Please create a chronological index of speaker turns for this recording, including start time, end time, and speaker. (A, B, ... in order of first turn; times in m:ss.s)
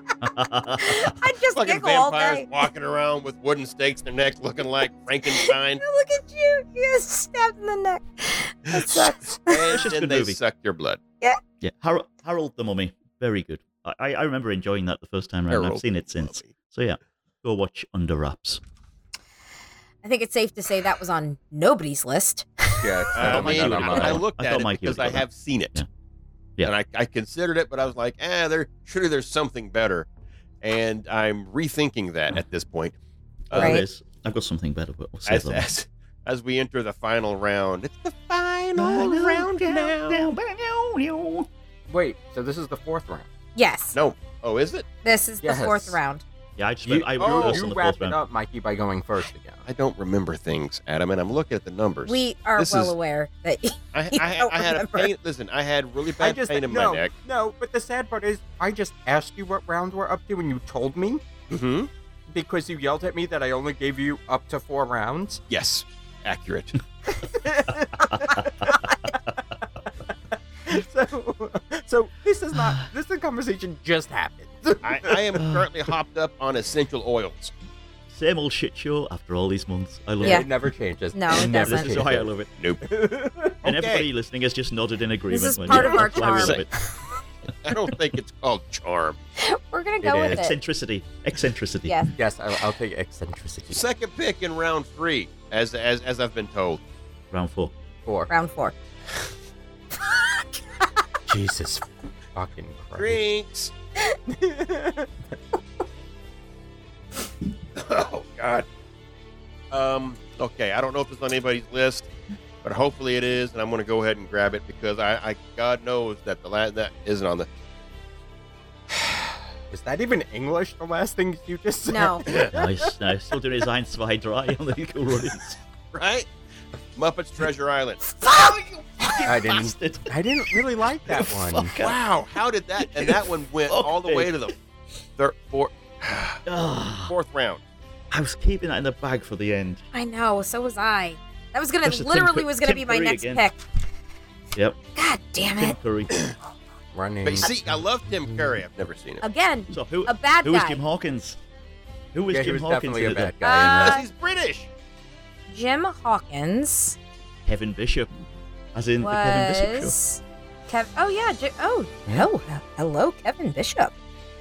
0:00.2-0:01.1 A
0:00.8-0:02.5 B
0:01.6-0:05.8 C
0:05.3-0:09.7 B
0:08.7-0:11.0 C
0:09.7-0:10.4 A
0:11.6-0:18.6 A
0:15.5-0:16.5 C
0:20.0-0:23.0 B
0:22.8-0:24.2 D
0:23.1-0:25.8 C
0:23.2-0:25.9 A
0:26.6-0:30.1 C
0:30.6-0:33.0 C
0:33.5-0:33.8 C
0:33.5-0:35.7 A
0:33.5-0:33.8 B
0:35.3-0:40.2 C
0:38.8-0:41.5 A
0:41.9-0:43.3 D
0:43.6-0:44.0 B
0:43.9-0:44.9 C
0:45.0-0:46.2 B
0:45.4-0:46.0 D
0:46.6-0:48.2 A
0:46.8-0:49.7 D
0:47.2-0:47.6 C
0:49.7-0:52.9 C
0:52.1-0:55.1 B
0:53.9-0:57.1 C
0:56.2-1:01.2 D
1:01.5-1:01.9 C
1:02.3-1:05.4 D
1:05.5-1:06.8 C
1:07.3-1:08.7 D
1:08.1-1:08.4 A
1:09.9-1:15.4 D
1:14.8-1:17.5 C
1:15.4-1:15.7 A
1:18.1-1:20.5 A
1:20.2-1:22.3 D
1:21.1-1:22.0 B
1:21.3-1:22.5 A
1:22.6-1:22.9 C
1:22.8-1:23.6 D
1:23.6-1:24.1 C
1:23.6-1:26.7 A
1:25.3-1:27.1 B
1:25.7-1:26.3 D
1:26.3-1:26.6 C
1:27.6-1:29.2 C
1:29.4-1:30.6 B
1:30.0-1:32.0 A
1:32.2-1:33.8 D
1:33.7-1:36.8 C
1:37.3-1:37.7 A
1:38.0-1:38.3 D
1:38.3-1:38.7 B
1:40.1-1:40.5 B
1:41.3-1:43.2 D
1:43.0-1:43.7 C
1:44.3-1:45.1 D
1:47.8-1:48.7 C
1:49.7-1:52.1 C
1:52.6-1:57.5 C
1:58.9-2:02.9 D
2:01.9-2:02.3 B
2:02.3-2:02.5 C
2:02.5-2:05.6 A
2:05.9-2:06.3 C
2:07.0-2:08.2 C
2:08.2-2:10.1 A
2:09.2-2:11.8 D
2:11.1-2:12.0 A
2:11.8-2:14.6 C
2:12.8-2:14.3 A
2:15.2-2:16.4 C
2:16.5-2:17.1 A
2:17.1-2:17.6 C
2:18.1-2:19.8 A
2:19.9-2:23.6 B
2:21.8-2:23.4 A
2:25.0-2:25.8 B
2:25.5-2:26.3 A
2:26.9-2:27.5 D
2:27.2-2:29.2 C
2:29.2-2:30.8 B
2:29.7-2:31.4 A
2:32.1-2:33.4 A
2:32.3-2:33.9 D
2:33.4-2:34.1 B
2:33.7-2:34.7 C
2:35.5-2:37.0 B
2:37.5-2:38.1 A
2:38.8-2:40.0 A
2:39.0-2:43.9 B